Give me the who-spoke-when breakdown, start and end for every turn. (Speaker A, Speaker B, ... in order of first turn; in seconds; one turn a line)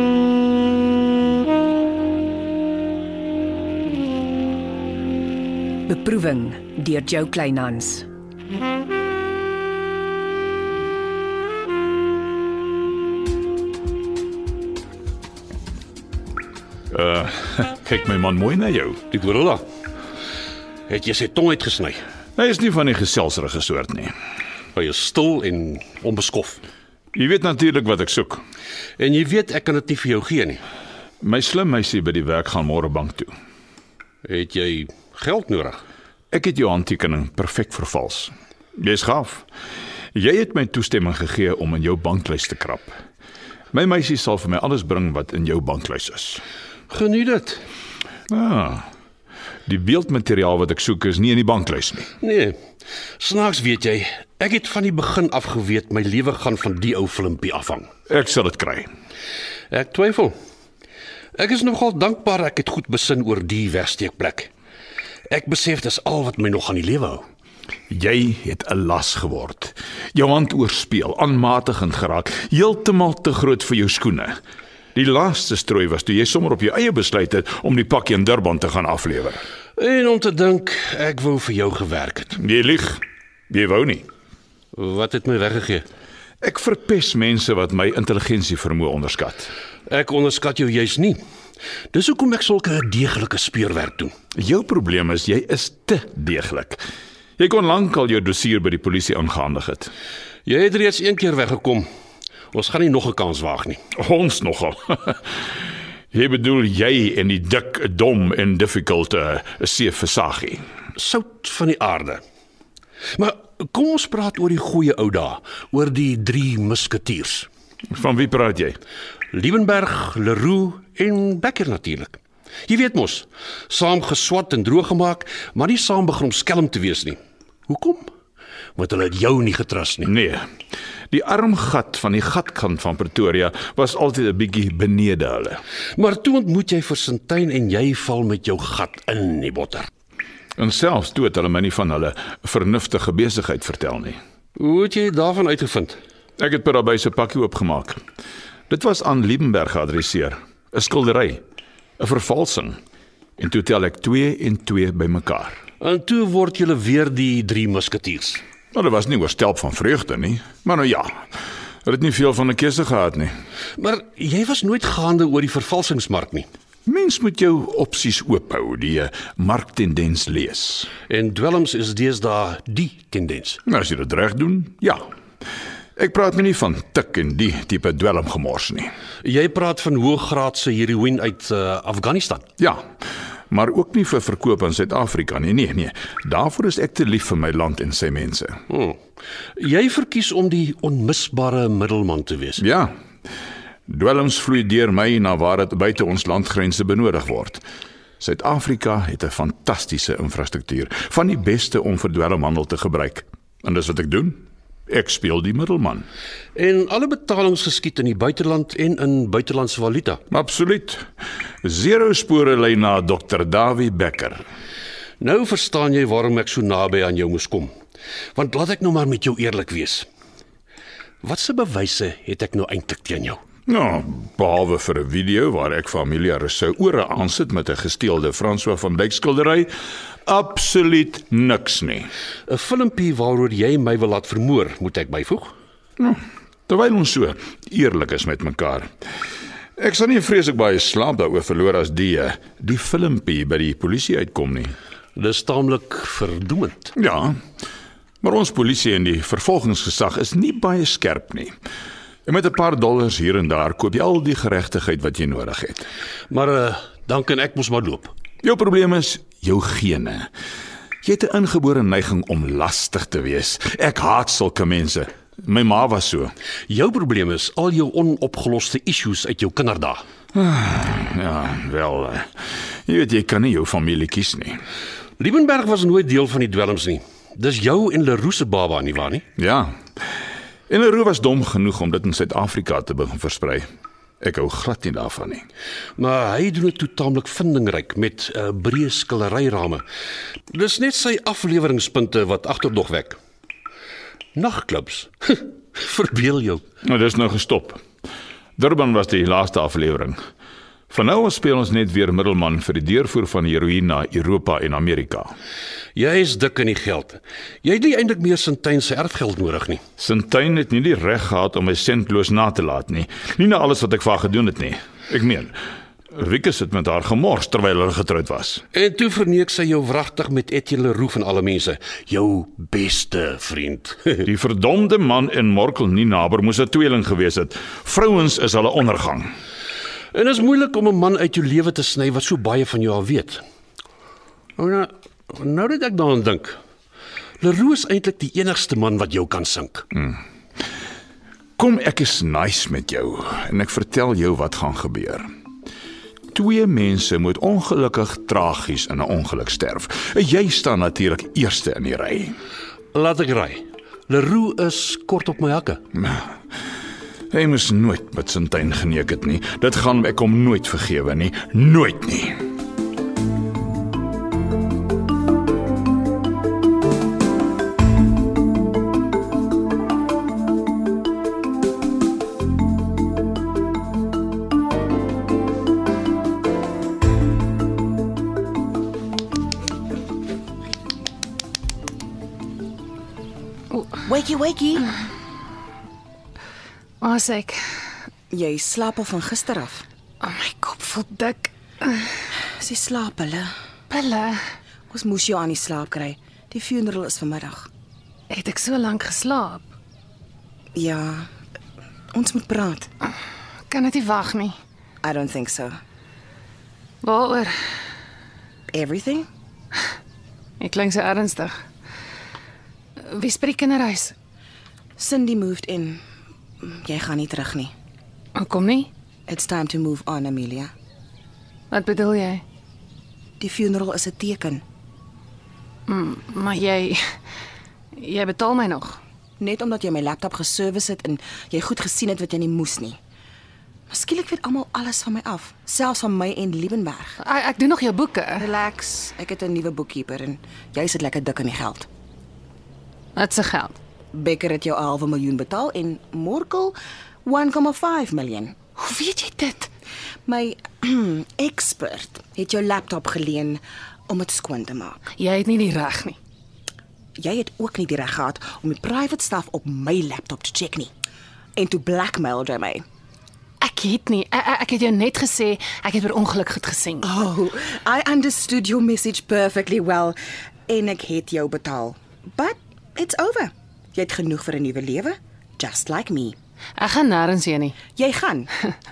Speaker A: 5.8-8.1
Speaker B: 16.9-19.0
Speaker C: 19.1-19.6
Speaker C: 20.9-22.0
Speaker B: 22.4-24.1
Speaker C: 24.7-26.6
Speaker B: 27.1-28.4
Speaker C: 29.0-30.6
Speaker B: 31.2-33.3
Speaker C: 34.2-35.8
Speaker B: 36.3-39.5
Speaker B: 40.1-42.9
Speaker B: 43.7-46.4
Speaker C: 46.9-47.6
Speaker B: 48.3-48.9
Speaker B: 49.6-52.1
Speaker C: 52.2-52.6
Speaker C: 53.2-57.9
Speaker B: 58.1-58.9
Speaker C: 59.7-60.3
Speaker C: 61.4-64.5
Speaker C: 65.3-67.2
Speaker B: 67.9-74.3
Speaker B: 74.9-79.4
Speaker C: 79.8-82.4
Speaker B: 82.4-84.1
Speaker C: 84.7-85.8
Speaker B: 86.4-89.5
Speaker C: 89.9-91.2
Speaker C: 91.9-94.1
Speaker B: 94.3-96.8
Speaker B: 97.4-99.9
Speaker C: 100.5-101.9
Speaker C: 102.5-103.8
Speaker B: 104.0-105.4
Speaker B: 106.1-110.6
Speaker C: 110.9-112.2
Speaker C: 113.2-117.5
Speaker B: 117.9-118.8
Speaker C: 119.3-128.1
Speaker C: 128.8-130.1
Speaker B: 130.1-130.5
Speaker B: 131.1-135.6
Speaker C: 135.9-139.9
Speaker B: 140.6-144.2
Speaker C: 144.6-146.0
Speaker B: 146.4-148.0
Speaker B: 148.7-151.4
Speaker B: 152.0-152.8
Speaker B: 153.4-155.6
Speaker C: 155.8-158.4
Speaker B: 158.7-161.1
Speaker B: 161.8-163.3
Speaker C: 163.8-166.5
Speaker B: 166.8-170.9
Speaker C: 171.0-173.6
Speaker B: 173.7-175.0
Speaker B: 175.9-178.9
Speaker C: 179.2-182.4
Speaker B: 183.5-188.6
Speaker C: 188.7-189.0
Speaker C: 189.6-192.6
Speaker B: 192.6-192.9
Speaker B: 193.9-197.6
Speaker B: 198.2-206.1
Speaker C: 206.5-210.2
Speaker B: 210.3-211.0
Speaker B: 211.6-214.4
Speaker C: 215.2-217.7
Speaker C: 218.3-220.1
Speaker C: 221.2-223.4
Speaker B: 223.7-229.7
Speaker B: 230.2-232.1
Speaker C: 232.5-235.5
Speaker B: 236.0-238.9
Speaker B: 239.8-244.8
Speaker C: 245.2-246.9
Speaker B: 246.9-247.4
Speaker B: 248.2-251.5
Speaker B: 252.2-255.9
Speaker C: 256.3-258.1
Speaker B: 258.4-260.3
Speaker B: 261.0-266.3
Speaker C: 266.7-270.0
Speaker B: 270.3-272.3
Speaker B: 272.9-274.6
Speaker C: 275.2-279.2
Speaker B: 279.4-279.8
Speaker B: 280.7-283.7
Speaker B: 284.2-285.4
Speaker C: 286.0-289.8
Speaker C: 290.5-293.2
Speaker C: 294.4-296.6
Speaker B: 296.8-297.8
Speaker B: 298.6-300.2
Speaker B: 300.9-305.3
Speaker C: 305.9-309.8
Speaker B: 310.0-315.6
Speaker B: 316.1-318.6
Speaker C: 318.7-324.2
Speaker B: 324.2-329.3
Speaker C: 330.1-333.4
Speaker C: 334.6-336.6
Speaker C: 337.4-339.9
Speaker B: 339.9-340.2
Speaker B: 341.6-345.2
Speaker B: 346.3-352.4
Speaker C: 352.9-355.8
Speaker B: 355.9-356.3
Speaker B: 357.3-362.4
Speaker D: 384.0-384.9
Speaker E: 387.0-387.6
Speaker D: 388.3-389.9
Speaker E: 390.2-392.1
Speaker D: 392.6-393.5
Speaker E: 393.9-394.4
Speaker D: 394.9-397.7
Speaker E: 398.3-399.6
Speaker D: 400.7-401.3
Speaker D: 402.1-402.9
Speaker E: 403.7-404.6
Speaker D: 405.0-405.8
Speaker E: 407.0-407.5
Speaker D: 408.7-409.3
Speaker E: 410.6-411.5
Speaker E: 413.0-414.1
Speaker D: 415.0-416.0
Speaker D: 416.6-417.7
Speaker E: 418.4-418.9
Speaker D: 419.3-420.7
Speaker E: 421.7-422.4
Speaker D: 423.4-424.6
Speaker E: 425.9-427.0
Speaker E: 427.9-429.0
Speaker D: 429.4-433.0
Speaker D: 433.9-437.2
Speaker E: 437.2-438.5
Speaker D: 438.4-441.9
Speaker E: 443.1-443.8
Speaker D: 444.1-448.6
Speaker E: 448.8-449.7
Speaker D: 450.2-455.0
Speaker E: 455.2-456.2
Speaker D: 457.2-460.9
Speaker D: 461.6-462.8
Speaker E: 463.6-467.0
Speaker D: 467.0-470.2
Speaker D: 470.7-476.4
Speaker E: 476.8-477.8
Speaker D: 477.9-478.5